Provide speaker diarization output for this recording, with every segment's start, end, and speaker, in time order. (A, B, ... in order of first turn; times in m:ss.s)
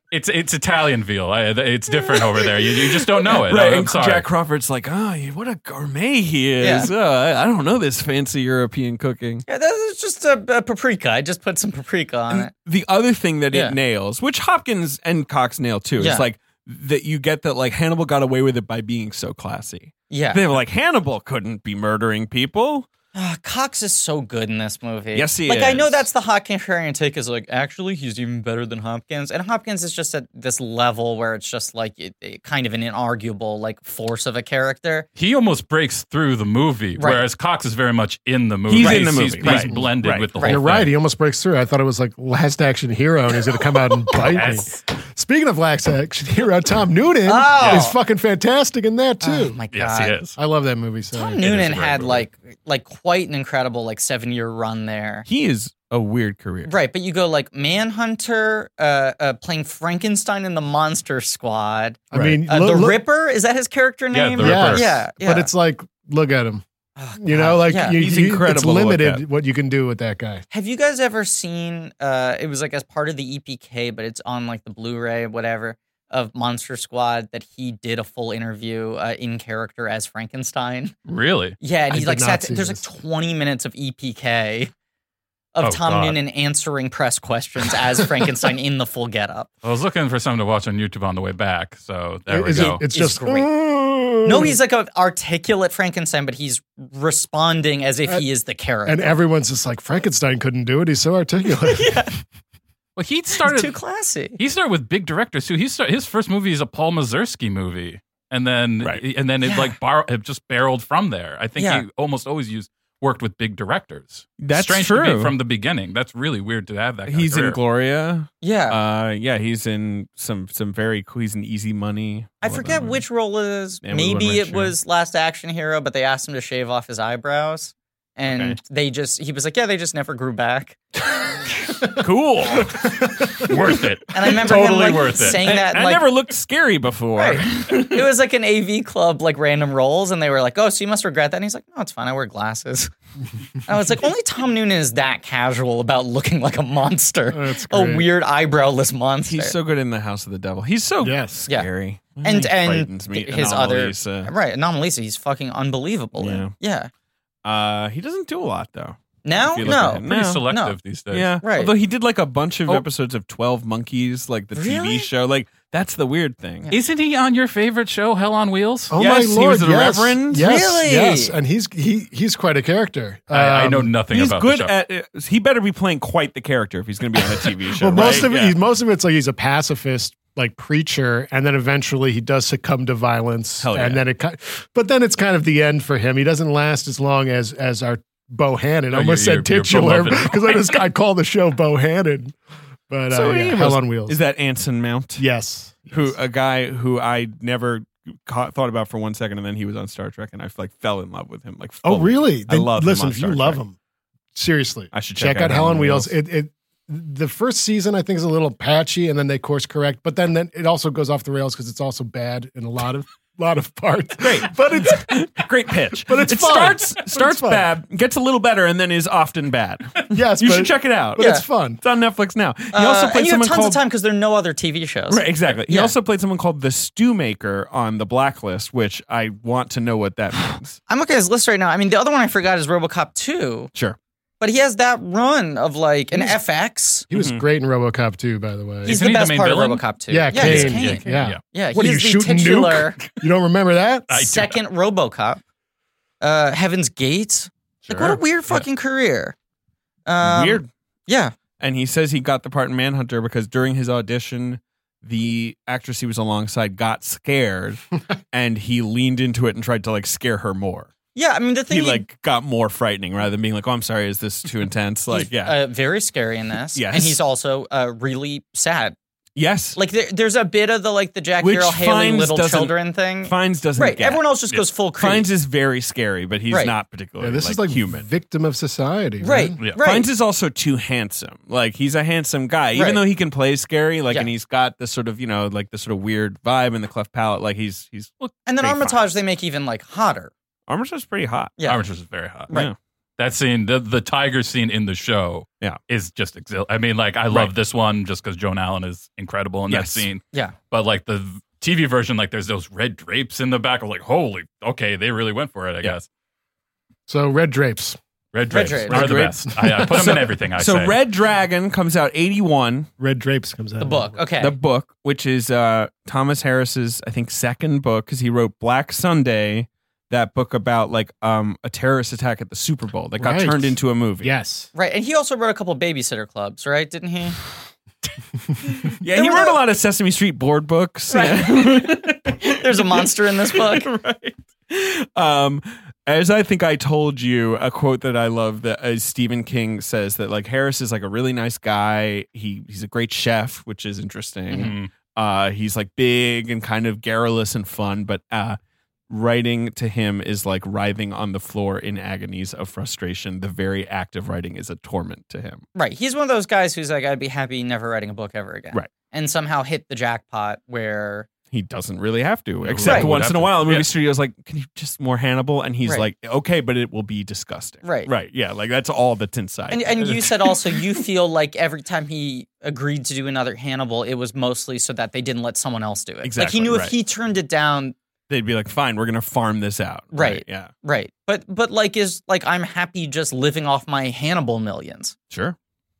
0:00.1-0:04.2 A
0:02.1-0:09.4 B
0:06.6-0:06.9 C
0:09.5-0:12.5 C
0:12.3-0:22.9 B
0:16.0-0:16.3 C
0:20.1-0:20.4 C
0:23.1-0:35.1 C
0:25.1-0:26.0 B
0:35.2-0:40.9 A
0:37.0-0:37.2 C
0:38.7-0:40.3 B
0:38.8-0:39.7 C
0:39.5-0:39.9 D
0:40.4-0:40.6 C
0:40.4-0:49.6 D
0:44.2-0:44.8 A
0:47.2-0:48.0 C
0:49.2-0:50.2 C
0:49.7-0:50.4 A
0:50.4-0:51.4 D
0:51.1-0:55.2 C
0:51.4-0:52.2 A
0:55.2-0:56.7 B
0:56.6-1:05.5 C
1:02.1-1:03.0 D
1:02.1-1:02.4 B
1:04.1-1:04.9 A
1:04.4-1:06.6 D
1:07.0-1:08.0 C
1:07.2-1:10.4 D
1:07.9-1:09.2 B
1:10.5-1:20.9 C
1:21.1-1:21.6 A
1:21.6-1:24.7 C
1:21.9-1:22.8 D
1:25.5-1:29.5 C
1:25.6-1:26.2 A
1:29.6-1:32.8 A
1:32.3-1:34.6 D
1:32.5-1:33.5 C
1:34.2-1:39.1 C
1:38.8-1:42.0 D
1:41.6-1:42.1 C
1:43.0-1:43.7 A
1:43.4-1:44.4 C
1:44.4-1:57.6 A
1:49.4-1:49.8 C
1:51.6-1:51.8 C
1:54.4-1:55.3 B
1:57.1-2:03.0 B
1:58.4-1:58.8 C
2:02.4-2:10.8 C
2:03.8-2:04.8 B
2:08.2-2:08.6 B
2:11.7-2:12.8 B
2:12.8-2:13.5 D
2:13.4-2:15.4 A
2:14.1-2:16.0 C
2:15.3-2:18.1 B
2:17.2-2:22.9 C
2:23.6-2:29.6 C
2:27.3-2:28.1 D
2:29.3-2:34.3 B
2:31.0-2:31.5 D
2:32.2-2:36.9 C
2:36.2-2:36.5 B
2:37.4-2:40.5 B
2:39.2-2:40.8 C
2:39.6-2:41.4 A
2:41.1-2:46.7 B
2:41.4-2:41.7 C
2:44.5-2:45.1 C
2:46.7-2:48.9 A
2:48.9-2:53.9 D
2:48.9-2:50.5 B
2:50.4-2:51.3 C
2:53.3-2:54.7 A
2:54.1-2:58.6 B
2:57.7-3:12.4 D
2:58.0-2:58.3 A
3:03.6-3:04.0 B
3:08.9-3:10.8 A
3:12.9-3:14.2 D
3:13.1-3:15.2 B
3:15.2-3:16.1 D
3:15.9-3:23.6 B
3:21.8-3:23.8 D
3:24.3-3:37.7 D
3:24.9-3:26.1 B
3:34.2-3:41.3 B
3:40.1-3:41.8 D
3:41.2-3:41.4 C
3:41.8-3:43.8 B
3:42.7-3:45.9 C
3:45.1-3:50.8 B
3:50.9-3:53.7 C
3:54.4-3:57.1 C
3:57.1-3:59.0 D
3:57.1-3:57.4 B
3:58.8-4:01.4 A
3:58.8-4:03.0 C
4:00.1-4:04.1 D
4:04.1-4:04.6 A
4:04.1-4:05.4 C
4:06.2-4:09.4 C
4:10.0-4:11.3 C
4:10.2-4:10.7 B
4:11.6-4:20.9 B
4:21.1-4:22.0 C
4:21.7-4:25.6 B
4:25.1-4:29.0 C
4:26.7-4:27.2 B
4:29.3-4:29.8 B
4:29.7-4:35.3 C
4:31.4-4:34.2 B
4:35.0-4:38.0 B
4:37.2-4:39.6 D
4:39.2-4:40.1 C
4:39.8-4:49.0 B
4:42.7-4:43.0 C
4:48.4-4:50.3 C
4:50.7-4:51.5 B
4:51.6-4:52.6 A
4:52.5-4:52.8 B
4:53.2-5:06.1 A
4:59.7-5:00.1 B
5:07.1-5:08.0 D
5:08.3-5:11.0 A
5:08.5-5:09.1 C
5:08.9-5:12.9 B
5:09.5-5:09.8 D
5:13.0-5:14.2 D
5:13.8-5:14.6 C
5:14.4-5:24.3 B
5:23.2-5:24.7 D
5:24.7-5:27.4 C
5:28.8-5:48.6 B
5:29.1-5:29.6 C
5:31.1-5:33.9 C
5:44.5-5:44.9 A
5:49.1-5:55.6 B
5:55.7-6:01.3 C
6:01.5-6:10.8 B
6:02.6-6:03.9 A
6:02.8-6:03.1 C
6:07.8-6:08.1 C
6:09.7-6:18.0 C
6:16.2-6:16.9 B
6:18.3-6:20.7 B
6:20.1-6:25.1 C
6:25.3-6:25.6 B